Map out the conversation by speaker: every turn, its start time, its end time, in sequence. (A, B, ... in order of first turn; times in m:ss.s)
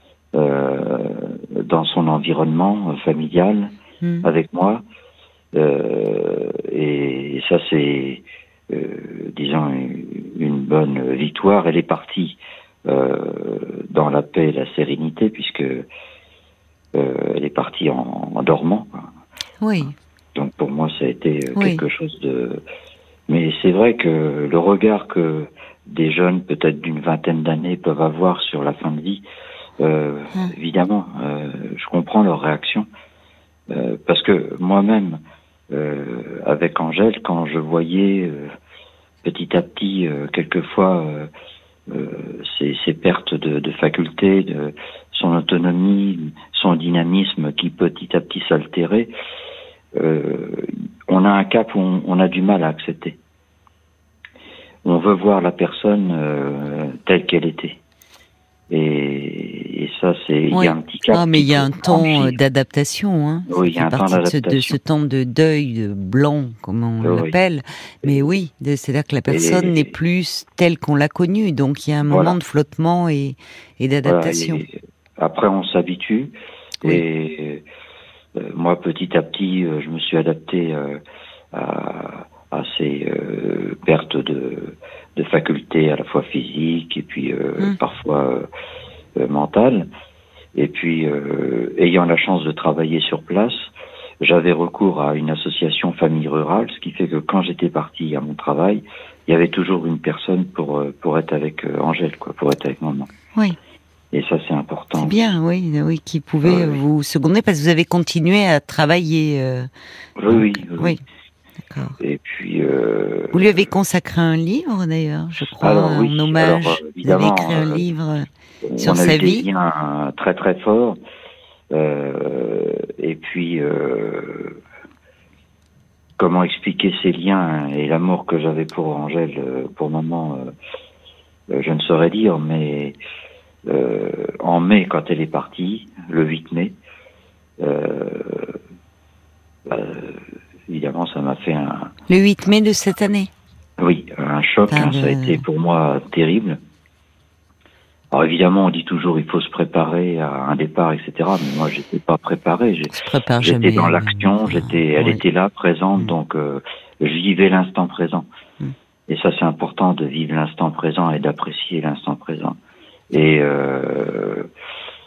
0:00.3-0:03.7 A
0:04.0-0:04.3 B
0:04.2-0:04.8 A
0:05.5-0:15.9 A
0:16.9-0:19.1 A
0:19.6-0:19.9 B
0:20.3-0:22.6 A
0:21.5-0:21.8 B
0:23.3-0:29.2 A
0:29.8-0:32.9 A
0:33.7-0:35.2 A
0:35.7-0:38.5 A
0:39.2-0:41.3 A
0:41.9-0:49.1 A
0:49.9-0:53.2 A
0:54.8-0:57.8 A
0:58.7-1:02.4 A
1:00.5-1:14.6 B
1:03.5-1:04.8 A
1:07.0-1:07.3 A
1:09.3-1:09.9 A
1:12.1-1:12.4 A
1:14.0-1:17.6 A
1:18.4-1:21.0 A
1:21.5-1:28.5 A
1:29.2-1:29.9 A
1:30.5-1:33.7 A
1:34.2-1:43.1 A
1:44.1-1:45.2 A
1:44.9-1:49.7 B
1:46.4-1:46.8 A
1:50.2-1:51.0 A
1:50.3-1:51.0 B
1:51.7-1:52.0 B
1:52.0-1:53.7 A
1:53.3-1:59.5 B
1:55.4-1:57.8 A
1:58.6-2:01.0 A
2:01.7-2:04.6 A
2:06.2-2:10.5 A
2:11.5-2:13.0 A
2:13.7-2:16.7 A
2:17.6-2:18.5 A
2:19.6-2:21.9 A
2:22.1-2:23.3 B
2:23.8-2:26.6 A
2:24.7-2:25.4 B
2:28.1-2:38.2 A
2:32.9-2:35.2 B
2:39.1-2:42.5 A
2:43.1-2:44.5 A